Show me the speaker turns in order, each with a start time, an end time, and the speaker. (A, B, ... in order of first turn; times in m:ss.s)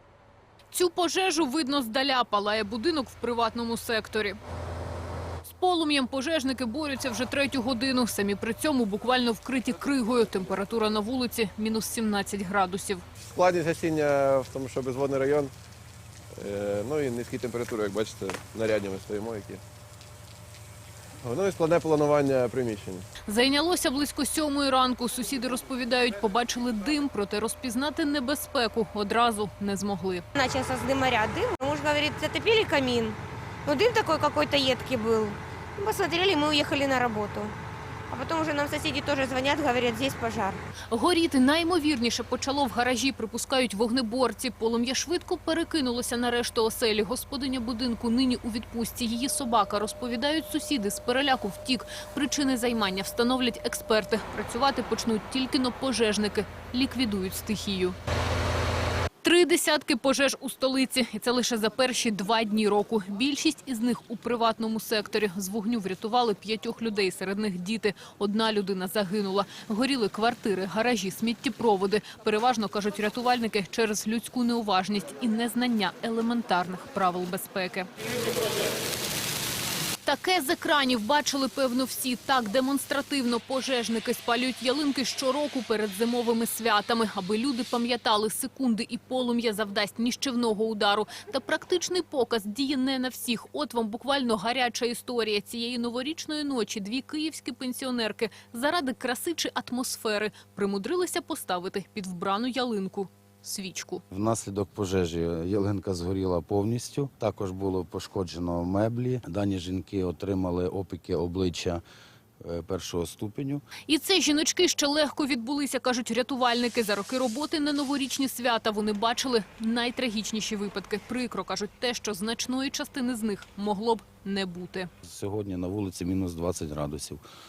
0:00.7-0:04.4 A
0:05.4-0:13.0 A
0:13.3-0:15.5 B
0:16.4-0:19.6 B
0:21.2-0:23.0 B
0:23.2-0:30.2 A
0:30.4-0:37.5 C
0:38.1-0:40.6 C
0:40.9-0:58.0 A
0:59.2-1:17.9 A
1:20.0-1:44.0 A
1:44.1-1:51.8 D
1:52.4-1:53.6 D
1:53.9-2:04.9 A
2:05.0-2:07.2 D